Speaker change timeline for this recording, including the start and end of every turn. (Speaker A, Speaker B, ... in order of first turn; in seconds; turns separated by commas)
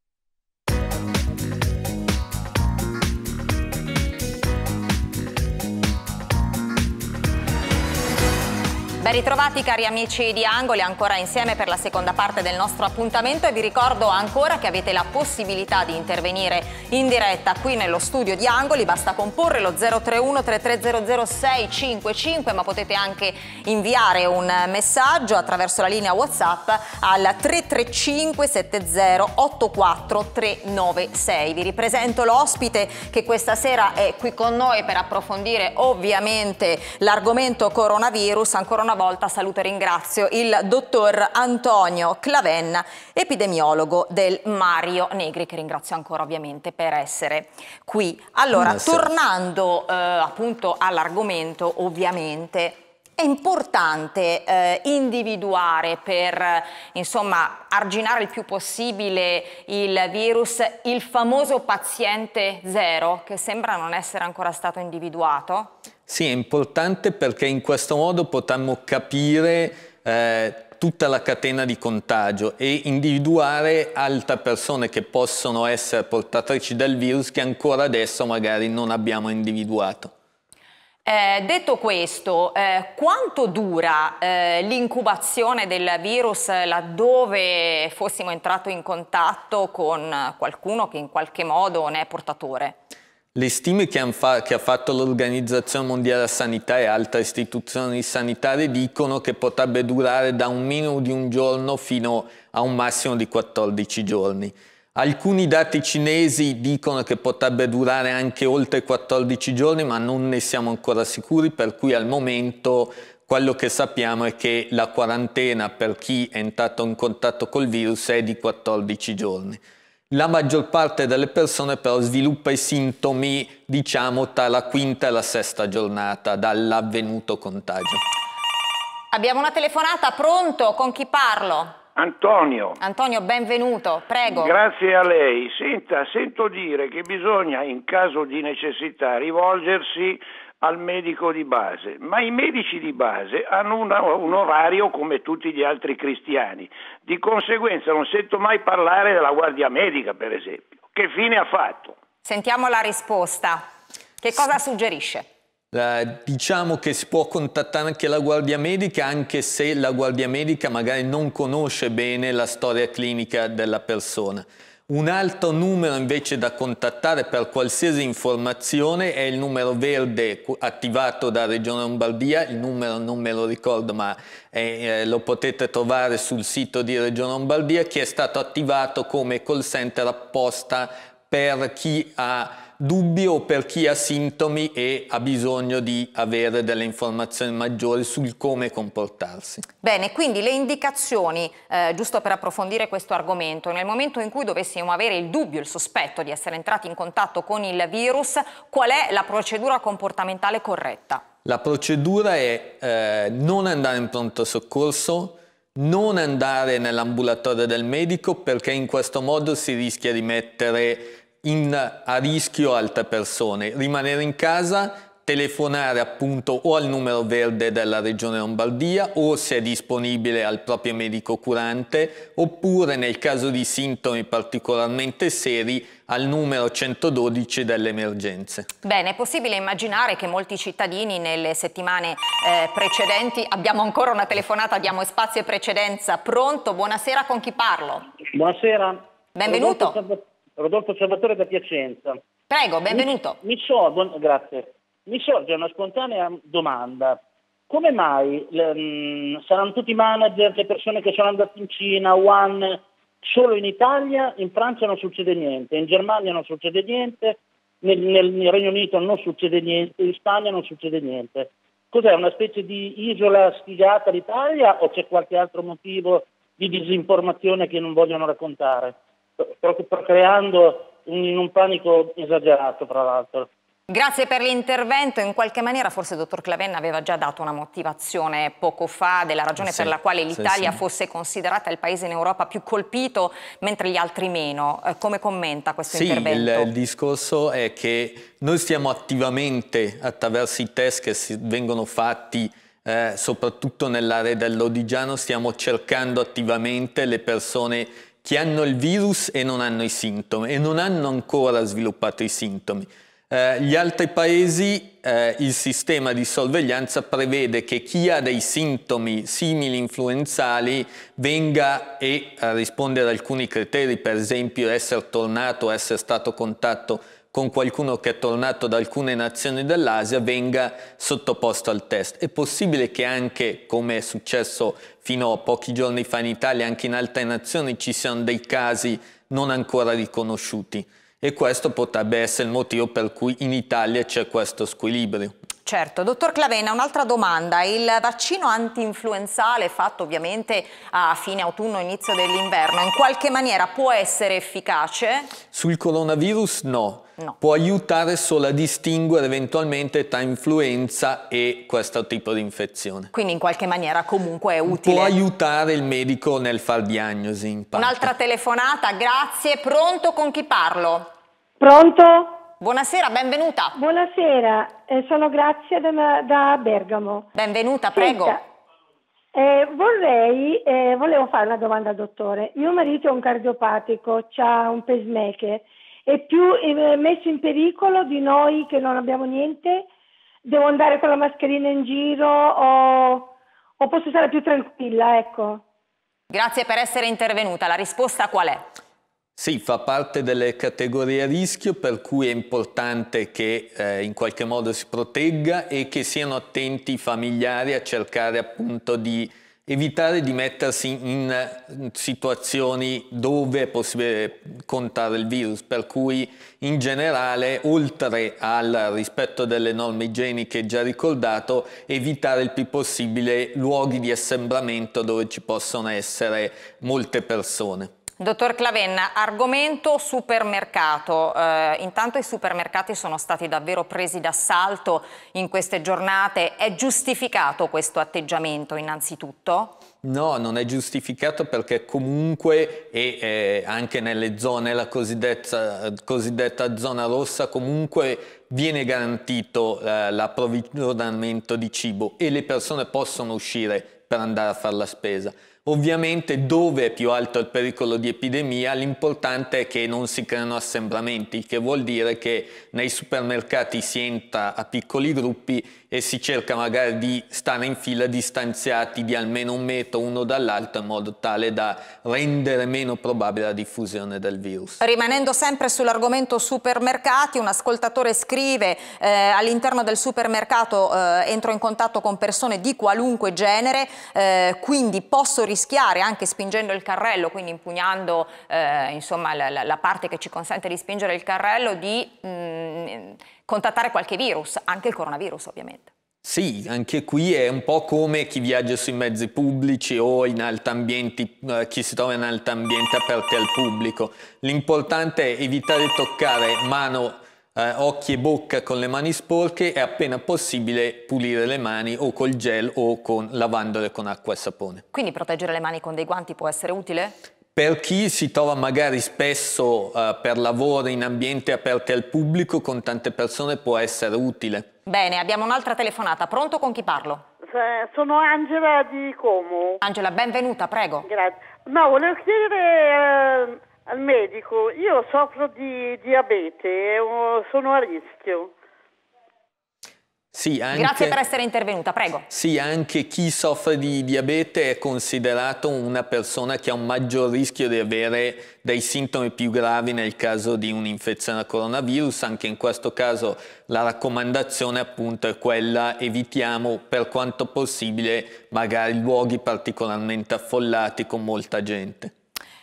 Speaker A: 9.0-65.7, Speaker B: 48.5-49.1, Speaker B: 66.1-80.1, Speaker A: 81.0-92.8, Speaker B: 93.3-128.0, Speaker A: 129.1-131.8, Speaker C: 131.9-132.8, Speaker A: 132.8-134.5, Speaker C: 134.3-152.0, Speaker A: 152.2-153.6, Speaker A: 154.2-155.2, Speaker B: 155.7-189.6, Speaker A: 189.8-201.2, Speaker B: 201.4-228.7, Speaker A: 228.8-238.1, Speaker D: 238.3-242.2, Speaker A: 239.3-240.0, Speaker A: 242.5-243.4, Speaker D: 242.9-273.5, Speaker A: 273.9-286.7, Speaker B: 279.6-280.8, Speaker B: 285.9-335.3, Speaker A: 335.6-345.3, Speaker B: 345.5-353.1, Speaker A: 353.1-355.1, Speaker B: 354.6-358.1, Speaker A: 357.8-361.1, Speaker E: 361.6-362.4, Speaker A: 362.6-363.8, Speaker E: 363.8-367.3, Speaker A: 367.3-368.4, Speaker E: 367.9-368.4, Speaker E: 369.3-379.9, Speaker E: 380.4-385.6, Speaker A: 386.3-388.7, Speaker B: 389.4-417.9, Speaker A: 418.2-429.8, Speaker B: 430.0-464.8, Speaker A: 464.8-485.9, Speaker B: 486.2-504.8, Speaker A: 504.9-507.1, Speaker B: 507.6-514.7, Speaker A: 514.9-517.2, Speaker F: 517.4-519.8, Speaker A: 519.8-521.0, Speaker F: 521.0-528.5, Speaker B: 530.3-531.2, Speaker A: 530.7-532.3, Speaker B: 532.3-552.1